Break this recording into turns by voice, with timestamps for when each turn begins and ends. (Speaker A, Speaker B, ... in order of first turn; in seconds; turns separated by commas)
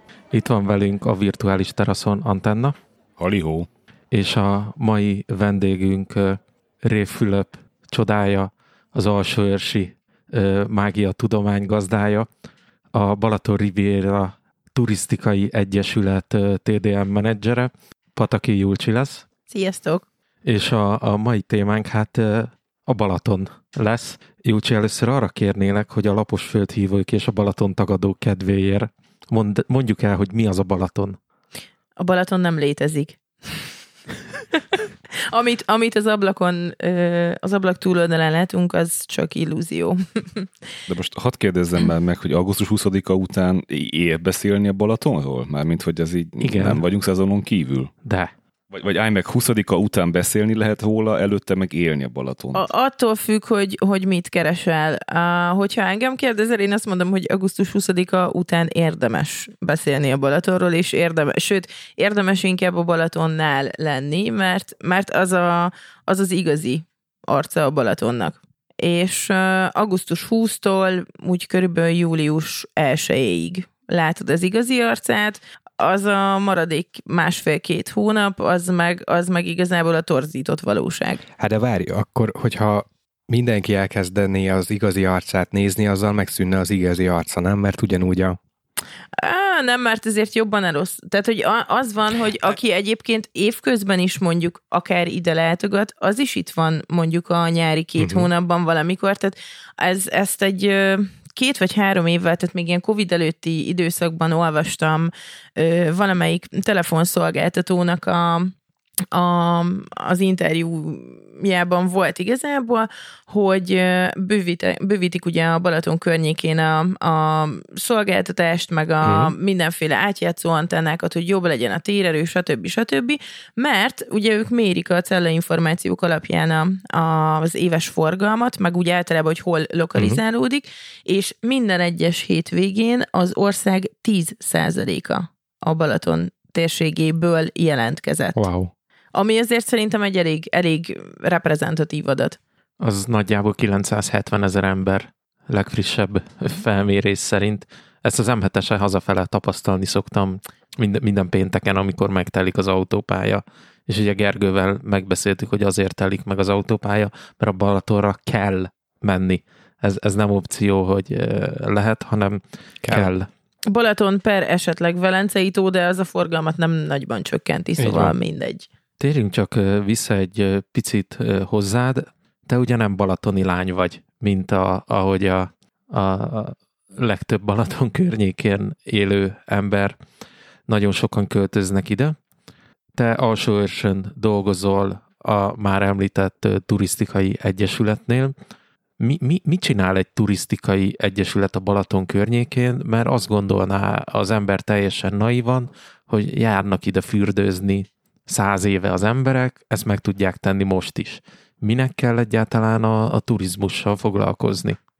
Speaker A: 0.3-2.7, Speaker B: 3.2-3.7, Speaker A: 4.1-12.3, Speaker A: 12.9-19.2, Speaker C: 19.5-20.0, Speaker A: 20.4-31.2, Speaker C: 32.0-33.7, Speaker C: 34.5-40.5, Speaker B: 40.9-47.9, Speaker A: 46.4-46.8, Speaker A: 48.0-48.3, Speaker B: 48.7-52.6, Speaker C: 52.5-81.2, Speaker D: 81.4-88.4, Speaker C: 89.2-108.5, Speaker D: 98.0-98.3, Speaker C: 109.1-138.4, Speaker D: 119.0-119.3, Speaker D: 138.3-138.7, Speaker C: 139.1-142.4, Speaker A: 142.8-163.3, Speaker D: 162.8-163.1, Speaker C: 163.7-168.7, Speaker D: 167.8-168.1, Speaker A: 169.0-179.9, Speaker A: 180.7-182.2, Speaker A: 182.9-188.3, Speaker A: 189.0-204.8